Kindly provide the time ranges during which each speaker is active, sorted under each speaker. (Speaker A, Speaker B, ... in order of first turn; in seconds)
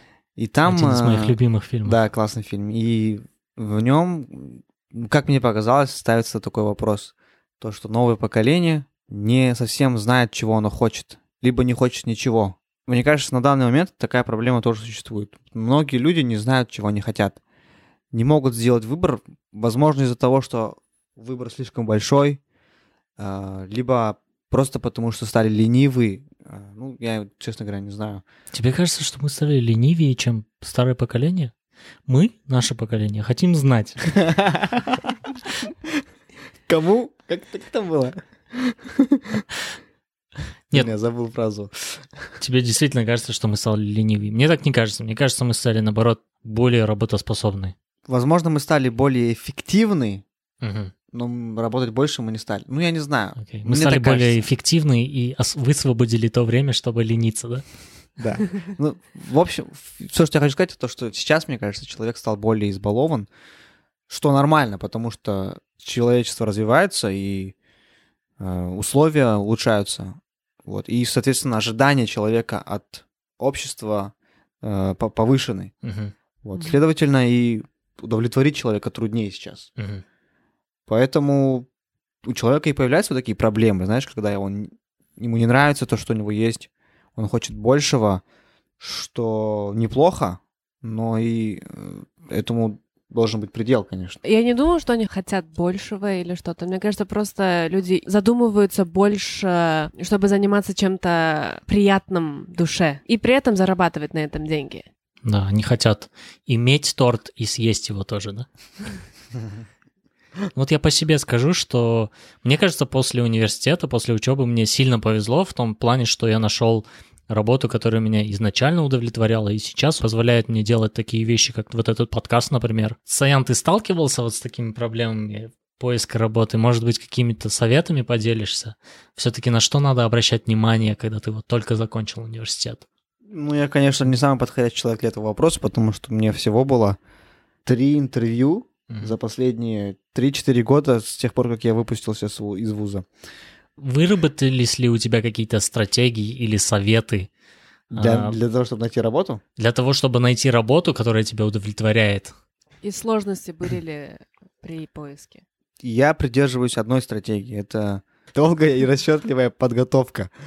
Speaker A: 0.4-17.4, 18.1-22.4, 23.2-28.2, 34.1-35.1, 36.7-39.4, 40.7-42.1, 48.1-50.2, 51.1-54.4, 58.2-63.3, 64.1-67.5, 68.4-75.7, 76.4-79.7, 80.9-81.7, 82.2-88.2, 88.8-94.2, 133.3-137.0, 137.6-143.1, 147.9-149.4, 155.8-160.3
Speaker B: 0.6-2.0, 28.5-31.5, 32.1-34.1, 42.4-47.8, 50.6-50.9, 53.4-57.6, 75.8-76.1, 79.8-80.0, 105.2-108.5, 110.5-132.8, 138.9-139.1, 143.8-147.3, 147.9-148.4, 149.6-152.3
Speaker C: 94.2-104.9, 152.8-155.4